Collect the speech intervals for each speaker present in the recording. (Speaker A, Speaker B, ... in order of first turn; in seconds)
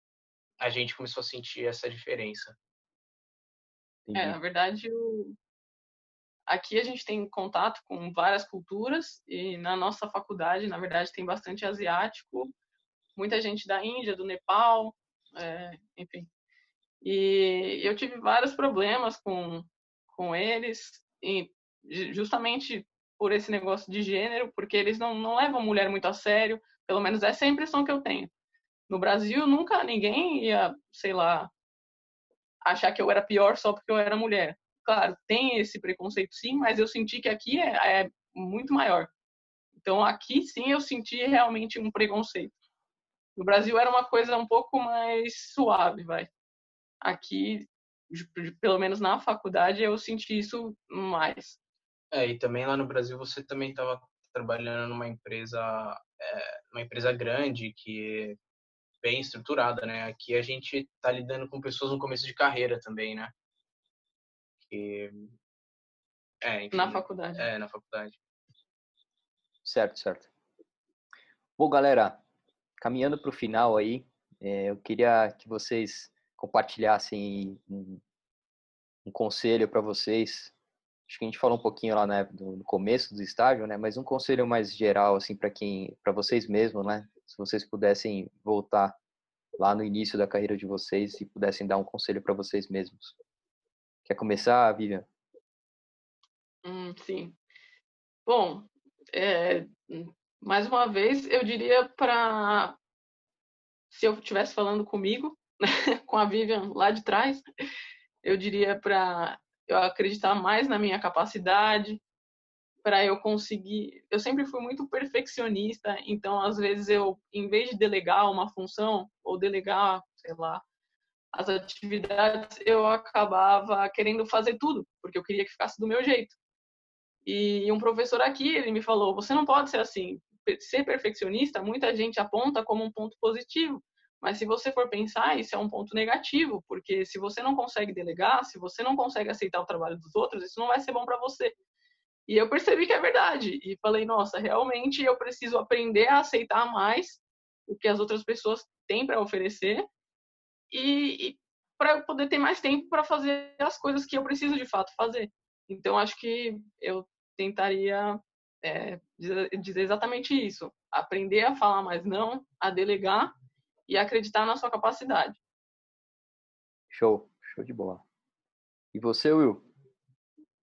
Speaker A: 0.6-2.6, 52.1-58.4, 59.0-63.3, 64.6-65.4, 66.4-68.2
Speaker B: 4.1-4.4, 69.6-70.3, 71.6-72.2, 72.8-78.0, 79.0-80.5, 81.1-89.0, 89.6-93.2, 94.1-95.1, 166.9-168.0, 168.9-169.7
Speaker C: 4.1-5.4, 6.5-12.5, 13.2-16.3, 17.0-28.3, 28.9-31.5, 32.6-39.1, 39.8-42.5, 43.4-46.3, 47.0-51.6, 66.7-67.5, 96.6-97.4, 98.3-102.8, 103.9-107.4, 108.2-112.0, 112.8-120.6, 121.3-126.4, 127.2-141.6, 142.3-149.9, 150.7-163.3, 163.9-165.4